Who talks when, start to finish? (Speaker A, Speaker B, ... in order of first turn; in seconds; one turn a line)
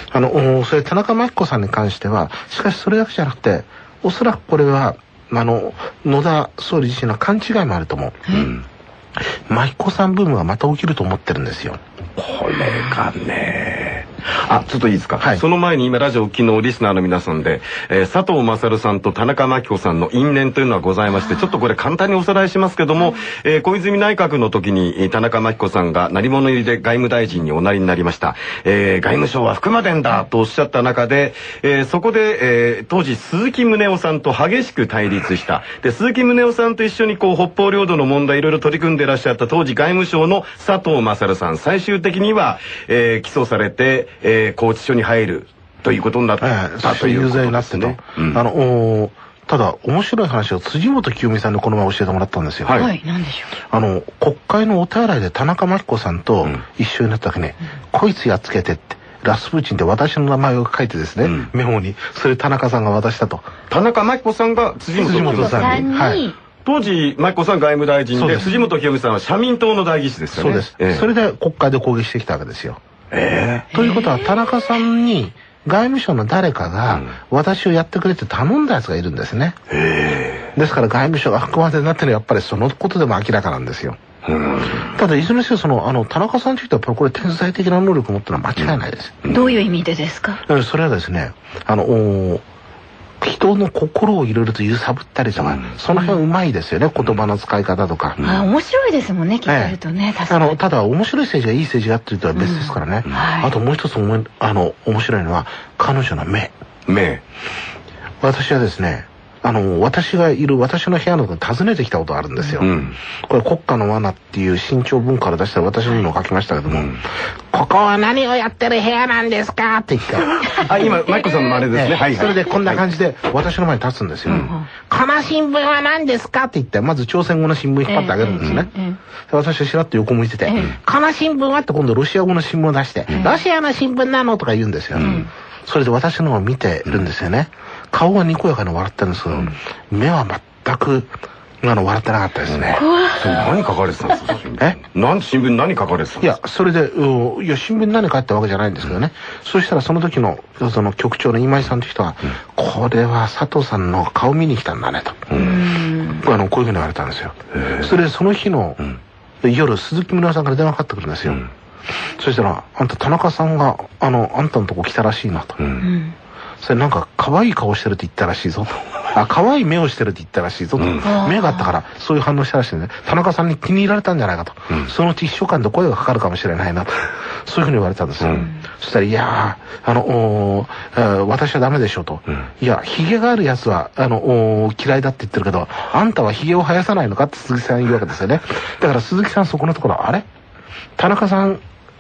Speaker A: 0.1-8.2
Speaker B: 8.3-8.7
Speaker A: 9.2-11.8
Speaker B: 12.2-48.4
Speaker C: 21.1-21.6
Speaker A: 46.4-52.9
Speaker B: 52.6-52.9
Speaker C: 52.8-53.5
Speaker A: 53.7-63.5
Speaker B: 61.2-61.5
Speaker B: 63.7-65.9
Speaker A: 65.0-66.2
Speaker C: 65.1-66.3
Speaker B: 66.6-71.0
Speaker A: 68.1-68.5
Speaker A: 70.3-72.8
Speaker B: 73.1-73.7
Speaker A: 73.7-79.6
Speaker C: 73.7-74.3
Speaker B: 79.7-80.5
Speaker A: 80.5-84.0
Speaker B: 84.2-84.8
Speaker A: 84.6-89.3
Speaker B: 89.2-89.5
Speaker C: 89.3-90.4
Speaker A: 90.4-92.4
Speaker A: 93.2-98.2
Speaker B: 95.4-95.7
Speaker C: 95.9-96.2
Speaker C: 98.2-100.6
Speaker A: 99.5-99.8
Speaker A: 100.3-106.5
Speaker C: 102.3-103.5
Speaker B: 106.8-107.2
Speaker A: 108.2-120.7
Speaker B: 112.6-113.0
Speaker B: 116.7-117.0
Speaker B: 120.5-122.8
Speaker A: 121.7-128.7
Speaker C: 124.3-124.7
Speaker C: 127.9-129.0
Speaker A: 129.3-141.1
Speaker C: 130.5-130.8
Speaker B: 134.9-135.2
Speaker C: 135.0-135.3
Speaker A: 141.6-142.8
Speaker B: 142.5-146.3
Speaker C: 142.8-143.4
Speaker A: 146.2-158.9
Speaker B: 155.3-155.6
Speaker C: 155.3-156.2
Speaker A: 159.4-161.5
Speaker A: 162.2-165.7
Speaker B: 165.6-165.8
Speaker C: 165.8-166.2
Speaker A: 166.6-190.2
Speaker C: 171.0-171.8
Speaker C: 178.3-178.6
Speaker A: 191.0-191.6